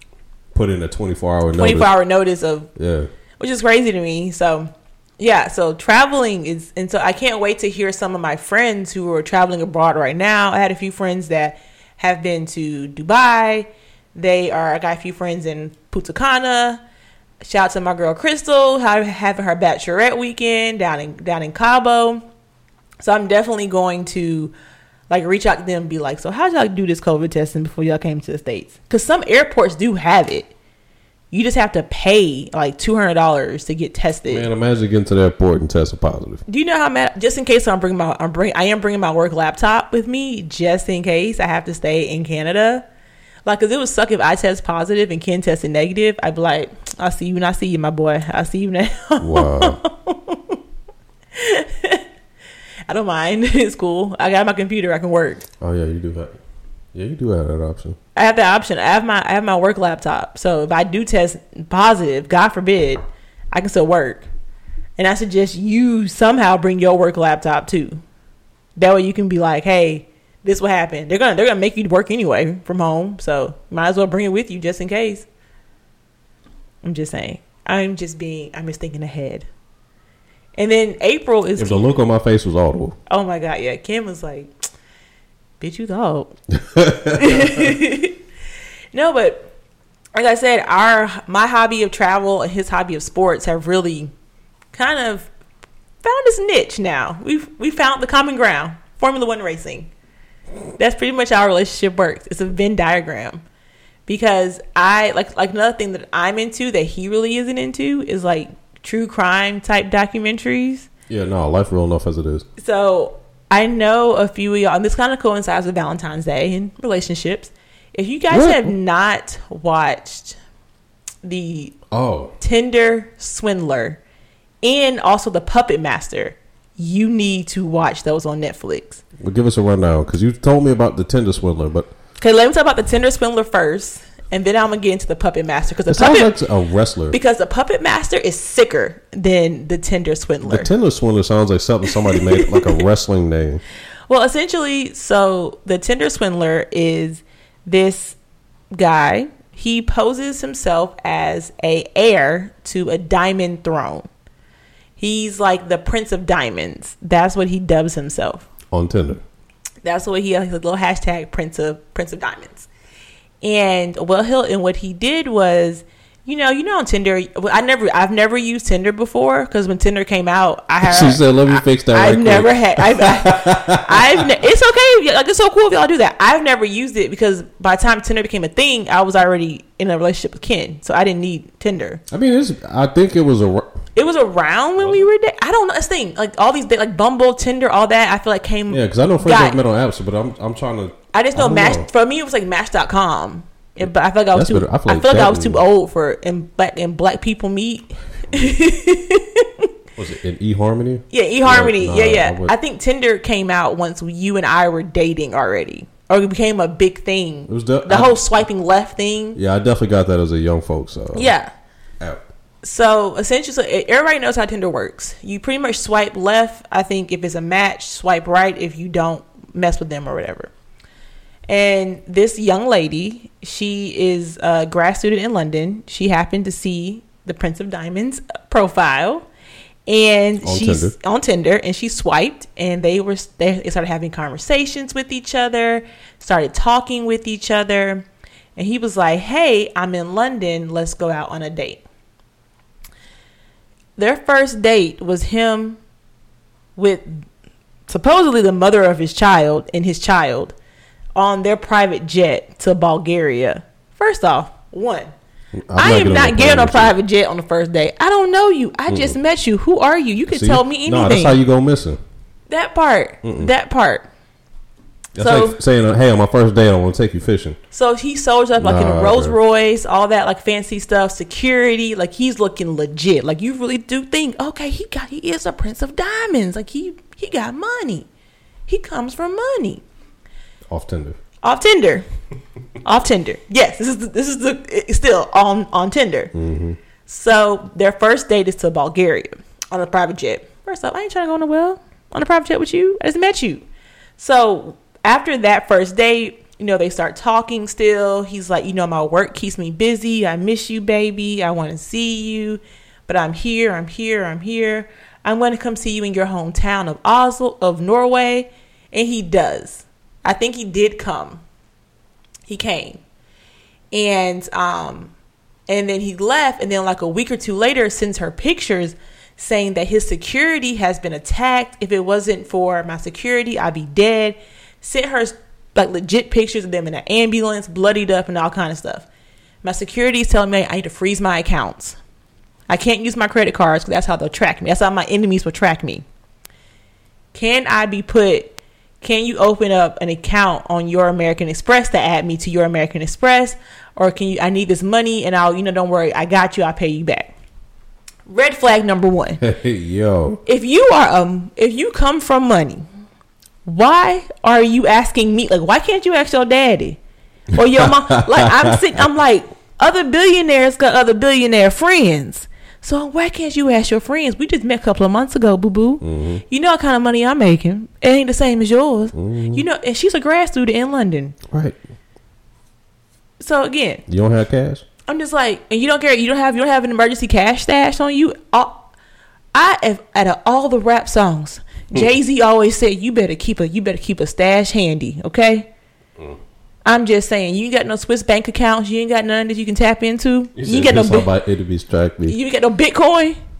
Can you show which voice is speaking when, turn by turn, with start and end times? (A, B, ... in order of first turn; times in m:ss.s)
0:00.5-0:01.9 A
0:01.5-0:02.7 B
0:02.8-0:03.1 A
0:03.4-0:16.8 B
0:17.4-0:22.2 B
0:23.0-0:24.5 B
0:25.1-0:30.5 B
0:31.3-0:34.5 B
0:34.3-0:36.4 A
0:36.5-0:42.8 B
0:43.4-0:50.6 B
0:49.2-0:49.8 A
0:51.3-0:52.0 B
0:52.9-0:55.4 B
0:55.6-0:56.4 A
0:56.9-0:58.0 A
0:58.1-1:04.2 B
1:05.0-1:08.0 B
1:08.8-1:15.3 B
1:16.8-1:19.5 B
1:20.6-1:21.9 B
1:21.6-1:23.0 A
1:23.1-1:24.5 B
1:25.6-1:26.3 B
1:26.5-1:27.6 A
1:27.1-1:28.2 B
1:28.9-1:29.5 B
1:30.1-1:34.1 B
1:34.7-1:35.3 B
1:36.0-1:39.9 B
1:40.8-1:43.4 B
1:44.1-1:50.9 B
1:51.1-1:52.4 A
1:52.6-2:00.4 B
1:58.3-1:58.7 A
2:01.2-2:01.8 B
2:01.9-2:02.3 A
2:02.4-2:04.0 B
2:04.6-2:09.0 B
2:09.2-2:11.9 A
2:12.2-2:16.3 B
2:15.9-2:17.2 A
2:17.1-2:20.7 B
2:20.4-2:23.6 A
2:21.9-2:22.6 B
2:24.1-2:28.2 B
2:28.7-2:34.1 B
2:35.0-2:38.5 B
2:38.7-2:39.2 A
2:39.8-2:42.7 B
2:43.4-3:02.0 B
2:50.8-2:54.3 A
3:02.1-3:03.8 A
3:03.9-3:09.6 B
3:08.7-3:11.8 A
3:11.1-3:19.6 B
3:13.8-3:15.6 A
3:20.0-3:22.5 A
3:21.1-3:29.4 B
3:27.5-3:28.2 A
3:29.4-3:31.3 A
3:31.1-3:31.5 B
3:32.6-3:40.5 B
3:41.5-3:49.2 B
3:49.9-3:58.0 B
3:50.4-3:50.9 A
3:58.6-4:01.8 B
4:04.0-4:05.8 B
4:06.8-4:07.2 B
4:07.9-4:10.5 B
4:11.2-4:15.1 B
4:15.5-4:16.9 A
4:15.7-4:21.4 B
4:18.9-4:19.2 A
4:20.3-4:22.0 A
4:22.5-4:24.0 B
4:23.2-4:23.5 A
4:25.2-4:27.6 A
4:25.2-4:25.6 B
4:27.7-4:38.1 B
4:28.6-4:29.4 A
4:38.7-4:39.8 B
4:40.7-4:41.2 A
4:41.4-4:42.0 B
4:42.8-4:46.3 B
4:46.3-4:46.8 A
4:47.1-4:53.6 B
4:54.2-5:11.4 B
5:12.5-5:13.0 B
5:13.9-5:15.1 B
5:15.7-5:29.1 B
5:29.6-5:32.0 B
5:32.7-5:36.0 B
5:37.3-5:47.3 B
5:48.3-5:49.4 B
5:49.4-5:50.4 A
5:50.4-5:52.8 B
5:53.6-5:57.0 B
5:57.5-5:59.0 A
5:57.5-6:11.4 B
6:06.0-6:06.4 A
6:09.1-6:09.6 A
6:11.5-6:11.8 A
6:13.4-6:14.0 B
6:14.1-6:14.8 A
6:15.1-6:18.9 B
6:19.5-6:25.7 B
6:26.8-6:31.3 B
6:30.5-6:32.4 A
6:32.2-6:33.4 B